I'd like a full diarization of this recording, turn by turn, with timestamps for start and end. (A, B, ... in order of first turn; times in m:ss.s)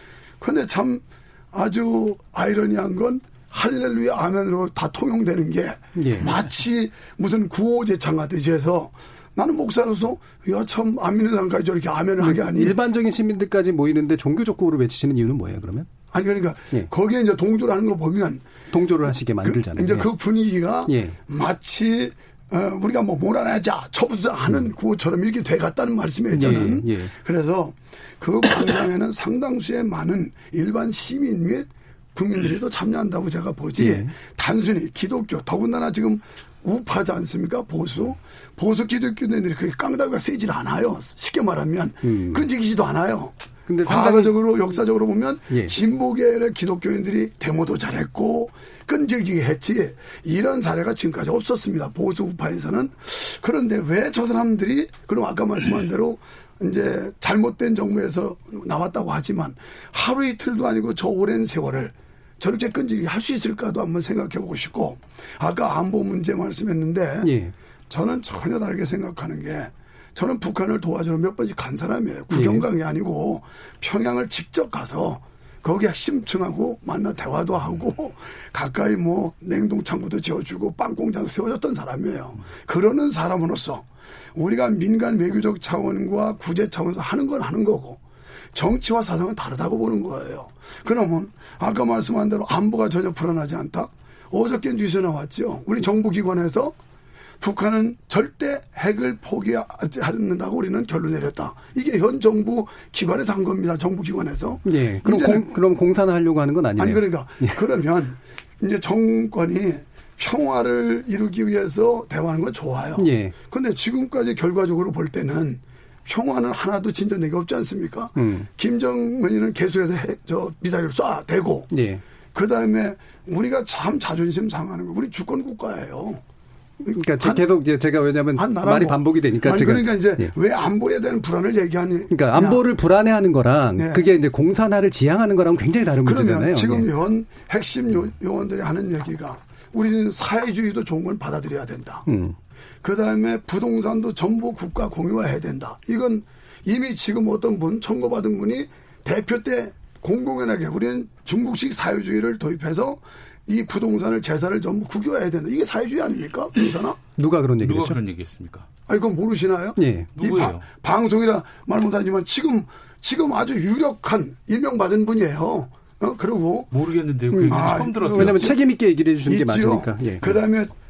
0:00.4-0:12.8 A
0:06.0-0:06.3 B
0:12.2-0:15.9 B
0:16.1-0:18.6 A
0:18.7-0:20.1 B
0:19.4-1:07.3 A
0:20.9-0:21.2 B
0:26.3-0:27.1 B
0:33.8-0:34.1 B
0:42.0-0:42.4 B
0:43.7-0:44.3 B
0:45.5-0:45.8 B
1:07.2-1:07.5 B
1:07.9-1:28.0 A
1:12.3-1:12.7 B
1:28.5-1:36.8 A
1:37.4-1:45.6 A
1:44.6-1:47.6 B
1:46.8-2:01.7 A
1:53.0-1:53.3 B
1:58.2-1:58.5 B
2:01.7-2:02.0 B
2:02.3-2:06.2 A
2:06.8-2:07.5 A
2:07.0-2:10.3 B
2:08.3-2:12.6 A
2:12.1-2:16.9 B
2:13.8-2:14.1 A
2:16.0-2:22.1 A
2:22.1-2:22.4 B
2:22.8-2:37.0 A
2:37.2-2:38.0 B
2:37.6-2:38.7 C
2:38.9-2:46.7 A
2:39.8-2:40.1 B
2:40.2-2:40.7 C
2:46.7-2:48.4 C
2:47.3-2:50.4 B
2:47.5-2:48.6 A
2:49.2-2:50.7 A